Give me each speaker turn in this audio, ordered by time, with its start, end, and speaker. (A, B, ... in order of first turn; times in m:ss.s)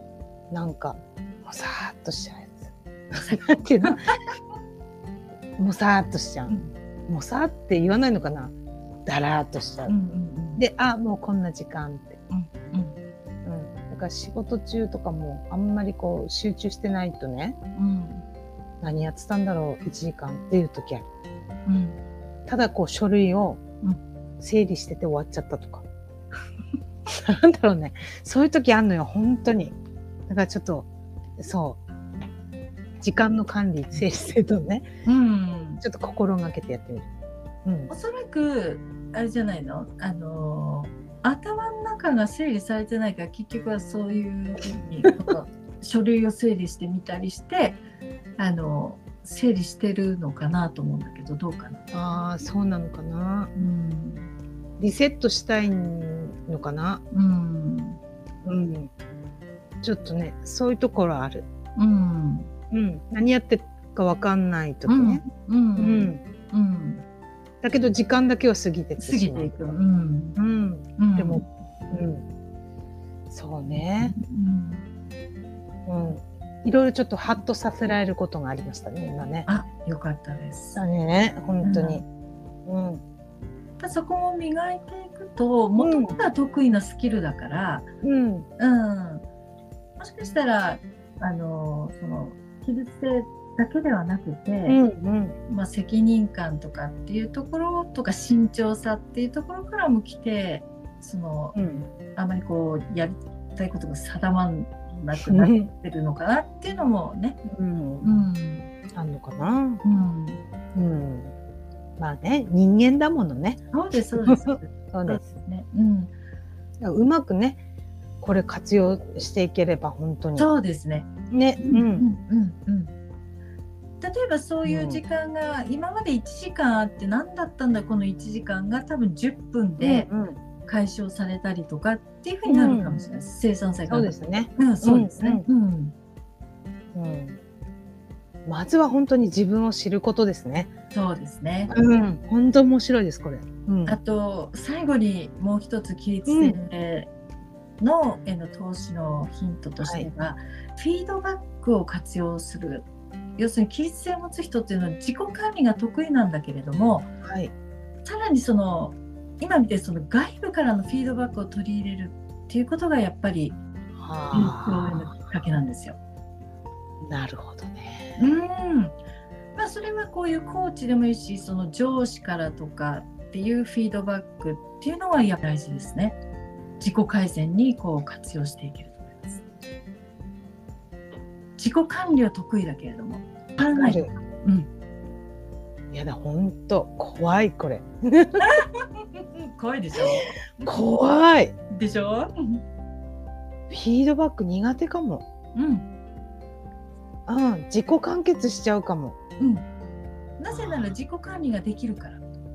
0:00.5-0:04.0 A
0:03.2-0:04.2 B
0:05.6-0:06.5 A
0:07.1-0:08.5 A
0:09.0-0:09.9 A
0:09.8-0:10.6 B
0:10.6-0:12.2 A
0:12.3-0:12.9 B
0:13.4-0:17.6 A
0:17.8-0:18.2 B
0:18.8-0:21.0 A
0:21.6-0:22.0 B
0:22.5-0:23.6 A
0:24.4-0:25.8 A
0:27.1-0:29.8 A
0:30.3-0:31.8 A
0:33.0-0:34.9 A
0:35.0-0:35.8 B
0:35.8-0:37.1 A
0:37.6-0:37.9 A
0:37.9-0:47.8 B
0:44.8-0:45.1 A
0:48.4-0:51.8 B
0:51.9-0:53.5 A
0:53.5-0:54.3 B
0:54.8-0:57.0 A
0:57.1-0:58.0 B
0:58.4-0:58.9 A
0:59.8-1:01.5 A
1:01.8-1:02.5 B
1:02.7-1:05.2 A
1:04.9-1:07.0 B
1:05.8-1:06.2 A
1:07.6-1:09.7 A
1:09.0-1:10.4 B
1:10.4-1:12.2 A
1:11.0-1:11.4 B
1:13.3-1:14.1 A
1:14.1-1:14.8 B
1:15.8-1:19.5 A
1:19.5-1:20.8 B
1:20.7-1:22.0 A
1:21.6-1:22.0 B
1:22.6-1:23.0 A
1:23.8-1:27.9 B
1:25.8-1:26.2 A
1:28.0-1:28.5 A
1:28.6-1:29.2 B
1:30.0-1:34.8 B
1:34.6-1:35.3 A
1:35.5-1:41.6 B
1:41.5-1:41.9 A
1:42.1-1:47.4 B
1:45.2-1:45.7 A
1:47.4-1:48.2 A
1:48.0-1:48.7 B
1:48.9-1:49.8 A
1:49.8-1:50.4 B
1:50.7-1:51.3 A
1:52.0-1:53.6 A
1:53.7-1:56.1 B
1:54.2-1:55.2 A
1:56.8-1:57.6 A
1:58.2-2:00.5 A
2:00.4-2:01.1 B
2:01.3-2:02.0 A
2:01.6-2:02.9 B
2:04.0-2:10.1 B
2:04.6-2:05.0 A
2:09.8-2:10.4 A
2:10.6-2:15.9 B
2:12.5-2:13.0 A
2:13.9-2:15.4 A
2:16.9-2:17.4 A
2:18.4-2:20.7 A
2:20.9-2:21.7 B
2:21.7-2:24.0 A
2:23.8-2:27.1 B
2:26.3-2:26.6 A
2:27.8-2:32.9 B
2:29.8-2:30.1 A
2:33.4-2:37.1 B
2:37.2-2:37.5 A
2:38.0-2:43.6 B
2:44.0-2:45.1 A
2:44.3-2:46.0 B
2:47.0-2:48.2 A
2:48.2-2:49.0 B
2:49.6-2:56.2 B
2:56.8-2:59.4 B
3:01.6-3:04.7 B
3:03.6-3:04.1 A
3:05.9-3:08.5 A
3:08.4-3:10.3 B
3:09.9-3:11.5 A
3:11.7-3:12.6 B
3:13.7-3:15.2 A
3:15.5-3:15.8 B
3:17.3-3:19.2 A
3:19.4-3:19.6 B
3:20.4-3:22.2 B
3:20.5-3:21.0 A